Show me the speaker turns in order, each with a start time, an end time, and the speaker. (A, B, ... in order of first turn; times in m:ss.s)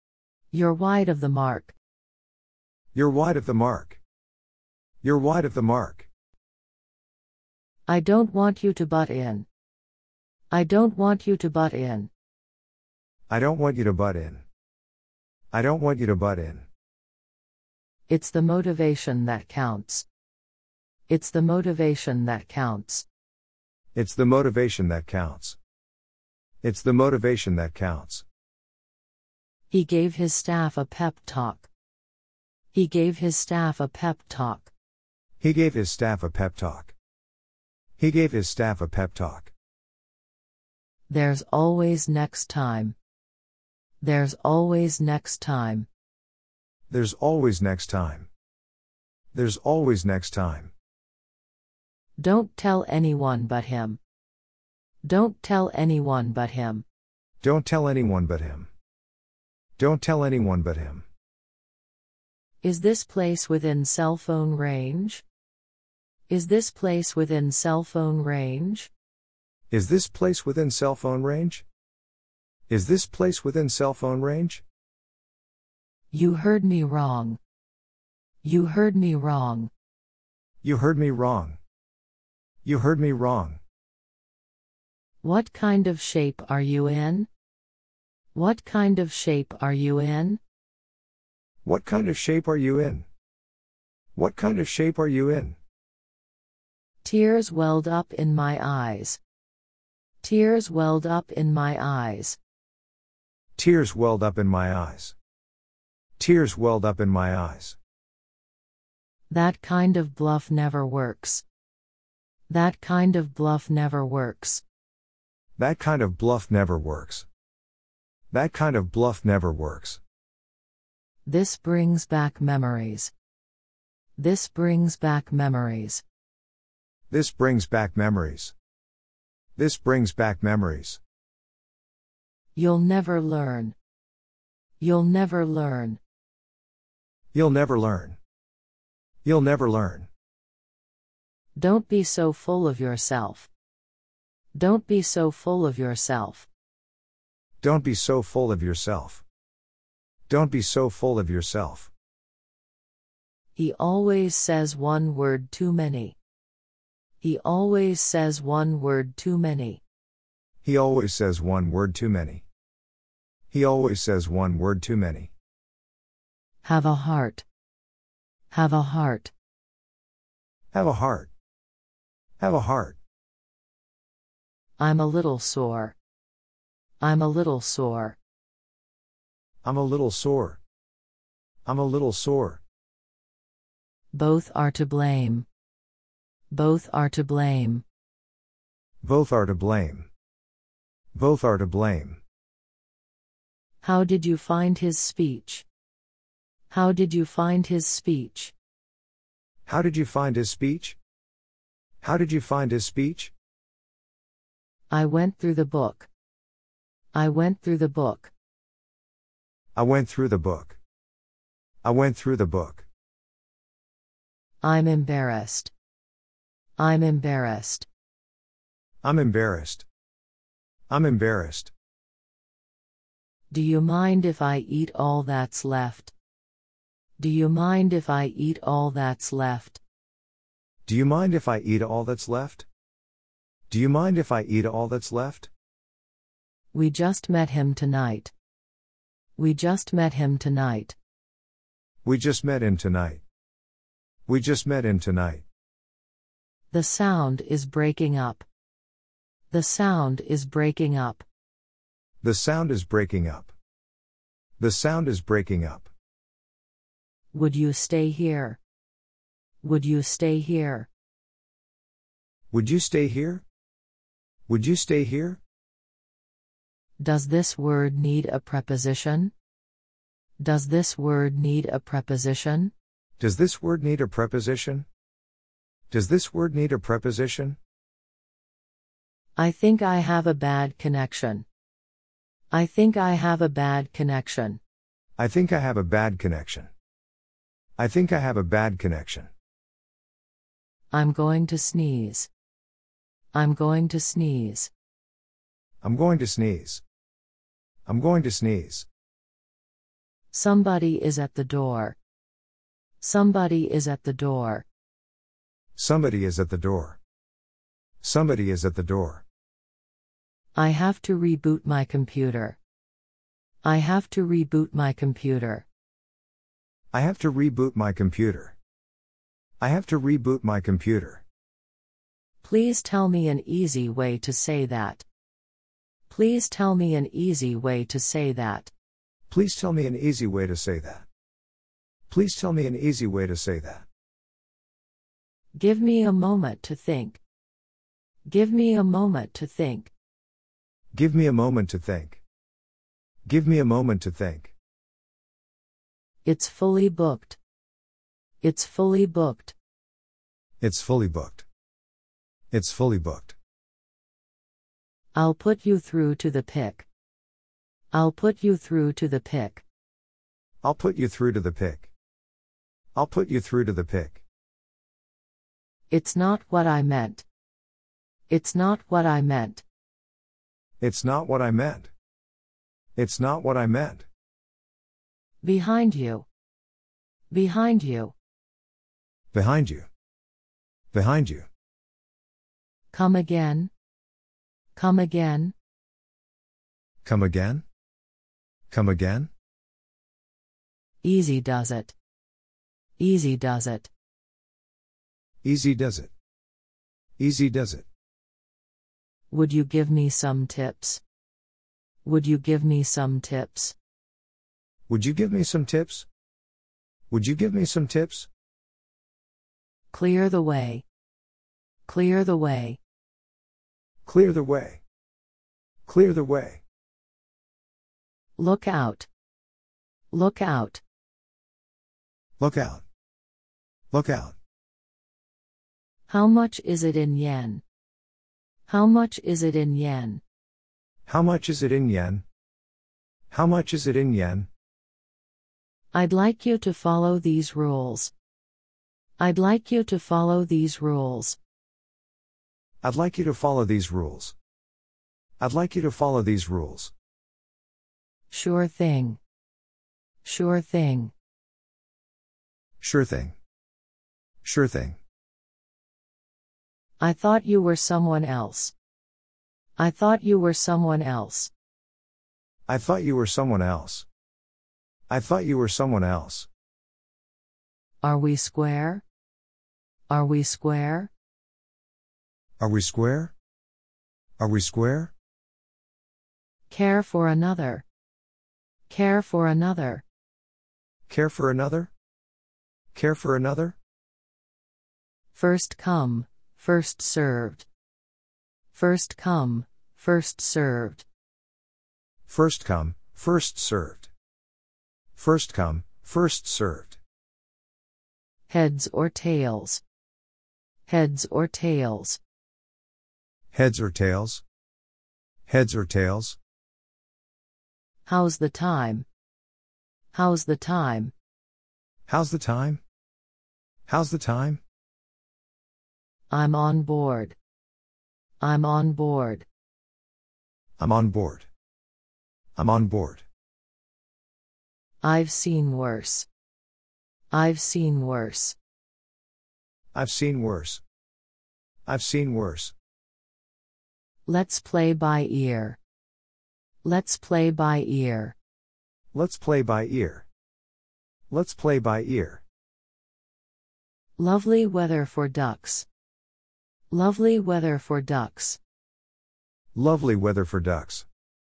0:00.5-0:01.7 A
0:02.9-0:04.0 B
0:05.0-0:06.1 B
0:07.9-0:09.5 A
0:10.5-0:12.1 A
0:13.3-0:14.4 B
0:15.5-0:16.7 B
0:18.1-0:20.0 A
0:21.1-0:23.1 A
0:23.9-0:25.6 B
0:26.6-0:28.2 B
0:29.7-0:31.7 A
0:32.7-0:34.7 A
0:35.4-0:36.9 B
0:38.0-0:39.5 B
0:41.1-0:43.0 A
0:44.0-0:45.9 A
0:46.9-0:48.3 B
0:49.3-0:50.7 B
0:52.2-0:54.0 A
0:55.0-0:56.8 A
0:57.4-0:58.7 B
0:59.8-1:01.0 B
1:02.6-1:05.2 A
1:06.3-1:08.9 A
1:09.7-1:11.6 B
1:12.7-1:14.6 B
1:16.1-1:17.4 A
1:18.4-1:19.7 A
1:20.6-1:21.6 B
1:22.6-1:23.6 B
1:25.2-1:27.3 A
1:28.4-1:30.4 A
1:31.6-1:33.1 B
1:34.2-1:35.6 B
1:37.0-1:39.2 A
1:40.2-1:42.4 A
1:43.6-1:45.2 B
1:46.2-1:47.8 B
1:49.3-1:51.4 A
1:52.5-1:54.6 A
1:55.6-1:57.3 B
1:58.3-2:00.0 B
2:01.3-2:03.1 A
2:04.2-2:06.0 A
2:07.1-2:08.5 B
2:09.6-2:11.0 B
2:12.6-2:13.8 A
2:14.8-2:16.0 A
2:17.3-2:18.2 B
2:19.2-2:20.1 B
2:21.6-2:23.5 A
2:24.6-2:26.5 A
2:27.6-2:29.2 B
2:30.3-2:31.9 B
2:33.6-2:36.2 A
2:37.2-2:39.8 A
2:40.6-2:42.4 B
2:43.5-2:45.3 B
2:46.6-2:47.4 A
2:48.5-2:49.3 A
2:50.7-2:51.3 B
2:52.4-2:53.0 B
2:54.8-2:56.0 A
2:57.0-2:58.2 A
2:59.6-3:00.6 B
3:01.7-3:02.6 B
3:04.1-3:05.5 A
3:06.5-3:07.8 A
3:09.0-3:10.1 B
3:11.1-3:12.2 B
3:13.8-3:15.6 A
3:16.7-3:18.5 A
3:19.7-3:21.0 B
3:22.0-3:23.3 B
3:24.9-3:26.1 A
3:27.1-3:28.3 A
3:29.8-3:30.8 B
3:31.8-3:32.9 B
3:34.6-3:35.7 A
3:36.8-3:37.9 A
3:39.0-3:39.9 B
3:40.9-3:41.7 B
3:43.5-3:46.1 A
3:47.2-3:49.8 A
3:50.9-3:52.7 B
3:53.7-3:55.5 B
3:56.7-3:58.3 A
3:59.4-4:01.0 A
4:02.0-4:03.2 B
4:04.3-4:05.4 B
4:06.7-4:08.4 A
4:09.5-4:11.2 A
4:12.2-4:13.5 B
4:14.6-4:15.9 B
4:17.3-4:18.6 A
4:19.6-4:20.9 A
4:22.5-4:23.4 B
4:24.5-4:25.4 B
4:27.0-4:29.3 A
4:30.4-4:32.7 A
4:33.2-4:34.9 B
4:35.9-4:37.6 B
4:39.4-4:41.5 A
4:42.5-4:44.6 A
4:45.2-4:46.7 B
4:47.8-4:49.3 B
4:50.9-4:52.3 A
4:53.3-4:54.7 A
4:55.8-4:56.8 B
4:57.9-4:58.9 B
5:00.3-5:02.0 A
5:03.0-5:04.7 A
5:05.8-5:07.0 B
5:08.0-5:09.2 B
5:10.6-5:12.6 A
5:13.6-5:15.7 A
5:16.9-5:18.6 B
5:19.6-5:21.2 B
5:22.4-5:25.0 A
5:26.1-5:28.7 A
5:29.3-5:31.1 B
5:32.1-5:33.9 B
5:35.6-5:37.2 A
5:38.3-5:39.9 A
5:40.9-5:42.2 B
5:43.3-5:44.5 B
5:46.2-5:47.4 A
5:48.4-5:49.6 A
5:50.6-5:51.5 B
5:52.5-5:53.4 B
5:55.2-5:56.9 A
5:57.9-5:59.6 A
6:00.6-6:01.9 B
6:03.0-6:04.2 B
6:05.9-6:07.2 A
6:08.3-6:09.6 A
6:10.8-6:11.9 B
6:13.0-6:14.1 B
6:15.4-6:16.3 A
6:17.3-6:18.1 A
6:19.3-6:19.9 B
6:20.9-6:21.5 B
6:22.9-6:23.7 A
6:24.8-6:25.5 A
6:27.0-6:27.6 B
6:28.7-6:29.3 B
6:31.0-6:32.0 A
6:33.0-6:33.9 A
6:35.4-6:36.1 B
6:37.2-6:37.9 B
6:39.3-6:41.0 A
6:42.0-6:43.8 A
6:44.9-6:46.1 B
6:47.1-6:48.3 B
6:49.9-6:50.8 A
6:51.9-6:52.8 A
6:54.1-6:54.8 B
6:55.9-6:56.6 B
6:58.4-6:59.1 A
7:00.1-7:00.8 A
7:02.4-7:02.8 B
7:03.9-7:04.4 B
7:06.1-7:07.6 A
7:08.7-7:10.2 A
7:11.1-7:12.2 B
7:13.3-7:14.5 B
7:15.9-7:18.1 A
7:19.2-7:21.4 A
7:22.8-7:24.4 B
7:25.4-7:26.9 B
7:28.3-7:29.2 A
7:30.2-7:31.1 A
7:32.8-7:33.4 B
7:34.4-7:35.0 B
7:37.0-7:38.7 A
7:39.8-7:41.5 A
7:42.7-7:44.1 B
7:45.1-7:46.5 B
7:48.0-7:49.0 A
7:50.1-7:51.1 A
7:52.6-7:53.3 B
7:54.4-7:55.1 B
7:56.7-7:57.8 A
7:58.9-8:00.0 A
8:01.1-8:01.9 B
8:02.9-8:03.8 B
8:05.3-8:07.7 A
8:08.7-8:11.1 A
8:12.3-8:14.1 B
8:15.2-8:17.0 B
8:18.5-8:19.8 A
8:20.9-8:22.2 A
8:23.5-8:24.4 B
8:25.5-8:26.4 B
8:28.1-8:29.1 A
8:30.1-8:31.1 A
8:32.1-8:32.8 B
8:33.9-8:34.6 B
8:36.3-8:37.4 A
8:38.4-8:39.5 A
8:40.8-8:41.5 B
8:42.6-8:43.2 B
8:45.0-8:46.3 A
8:47.3-8:48.6 A
8:49.9-8:50.8 B
8:51.9-8:52.7 B
8:54.3-8:55.8 A
8:56.8-8:58.4 A
8:59.1-9:00.3 B
9:01.3-9:02.4 B
9:04.2-9:05.9 A
9:06.9-9:08.6 A
9:09.8-9:11.1 B